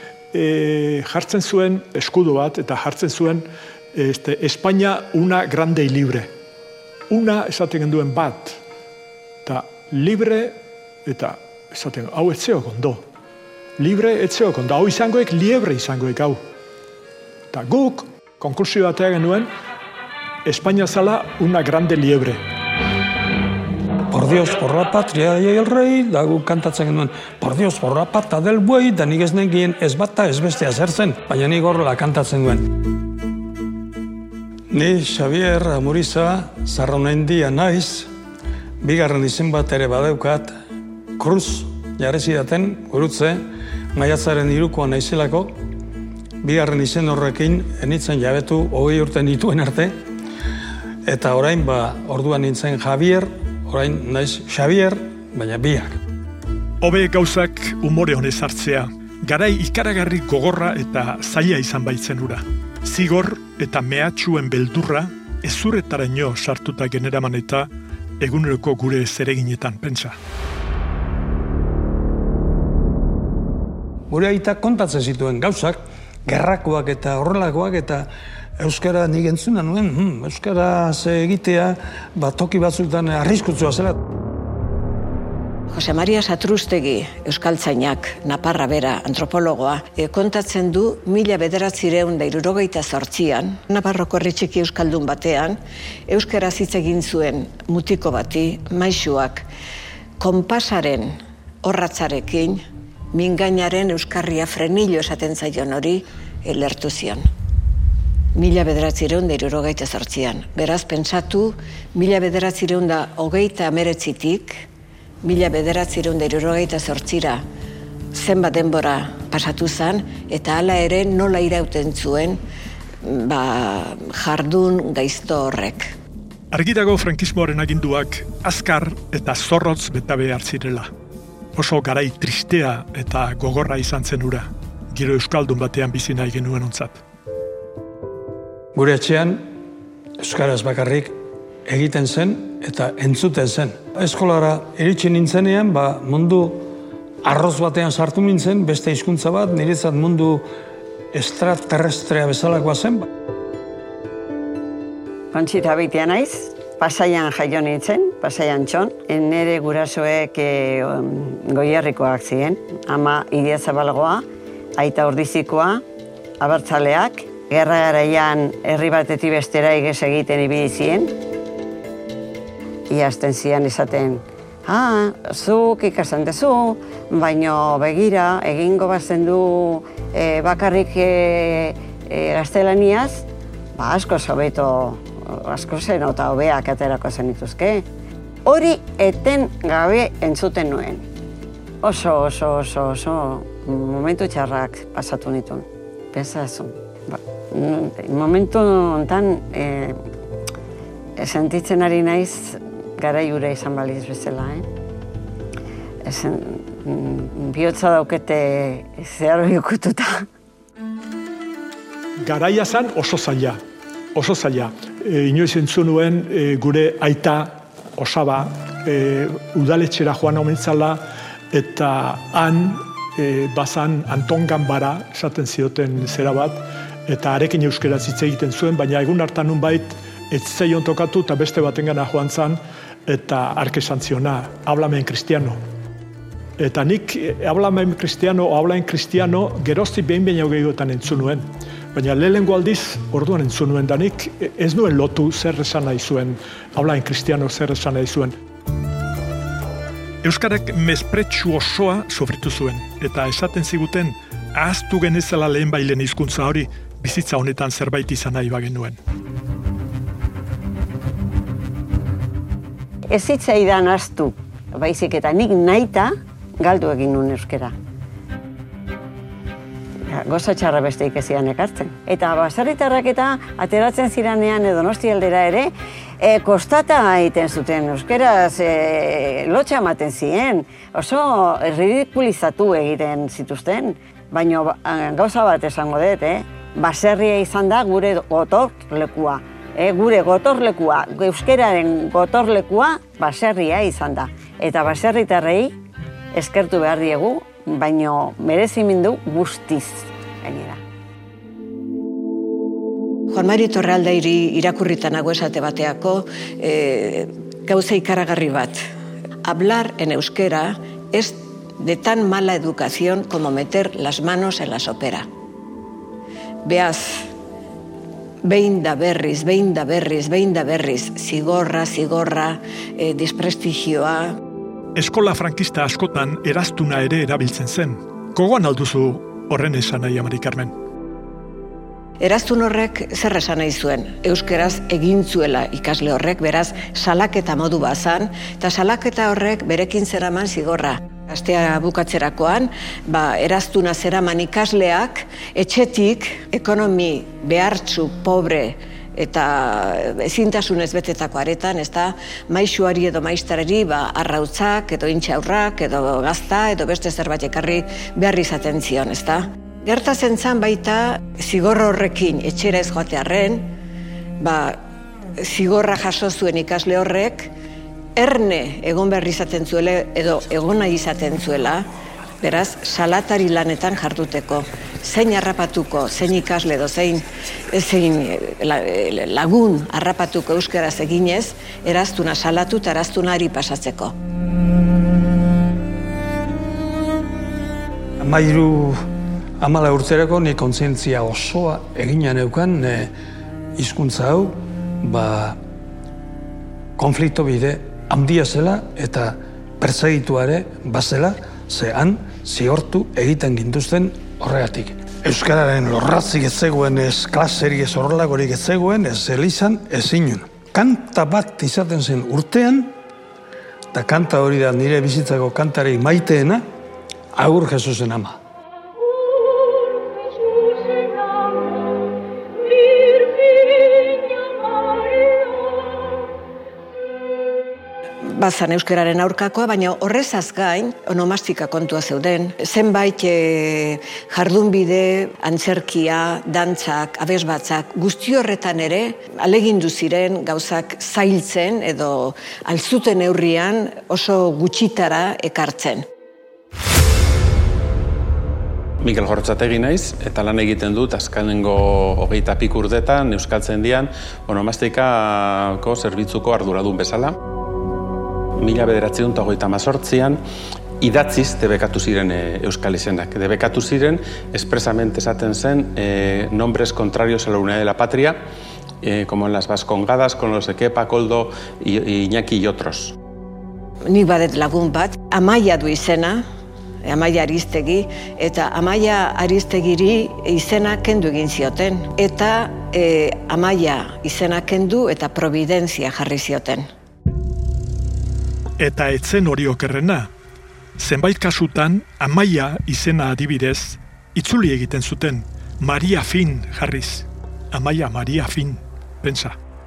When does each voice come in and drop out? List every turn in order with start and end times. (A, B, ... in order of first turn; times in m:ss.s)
0:00.3-0:06.3 A
0:07.1-0:08.6 A
0:09.4-0:13.0 A
0:13.8-0:16.4 A
0:17.5-0:19.5 A
0:20.5-0:22.4 A
0:24.1-0:32.8 B
0:34.7-0:38.1 B
0:38.8-0:40.6 B
0:41.2-0:43.4 B
0:43.9-0:45.6 B
0:46.4-0:50.0 B
0:51.0-0:56.0 B
0:56.8-1:07.7 A
1:08.2-1:10.2 A
1:14.1-1:24.0 B
1:25.7-1:39.5 C
1:40.2-1:47.3 C
1:48.4-1:54.6 C
1:55.2-1:57.4 C
1:58.1-2:02.4 C
2:03.0-2:05.9 C
2:06.5-2:10.9 A
2:11.6-2:17.0 A
2:18.7-2:19.4 B
2:20.2-2:26.7 B
2:27.2-2:30.5 B
2:31.1-2:33.1 B
2:35.3-2:44.2 D
2:44.8-2:45.8 D
2:46.4-2:51.2 D
2:52.9-3:03.2 D
3:03.8-3:07.8 D
3:08.5-3:11.0 D
3:11.8-3:20.0 D
3:21.2-3:24.7 D
3:26.0-3:30.3 D
3:32.2-3:33.6 A
3:34.2-3:55.6 A
3:56.6-4:08.4 A
4:10.2-4:19.0 A
4:23.1-4:27.7 D
4:30.1-4:55.8 D
4:56.3-5:00.8 D
5:03.3-5:08.8 C
5:09.4-5:15.3 C
5:16.6-5:17.3 C
5:18.4-5:24.4 C
5:25.0-5:30.7 A
5:32.2-6:03.7 C
6:04.4-6:04.8 C
6:05.4-6:07.5 C
6:08.2-6:11.9 C
6:12.4-6:24.1 C
6:28.2-6:29.0 B
6:29.6-6:33.1 B
6:33.8-6:35.6 B
6:37.0-6:53.0 B
6:53.9-6:56.7 B
6:57.3-6:58.4 B
7:08.2-7:26.1 C
7:29.0-7:37.4 E
7:38.6-7:40.4 E
7:41.0-7:48.4 E
7:49.0-7:53.2 E
7:54.1-7:56.5 C
7:57.0-8:06.9 C
8:08.8-8:10.3 A
8:11.0-8:19.6 A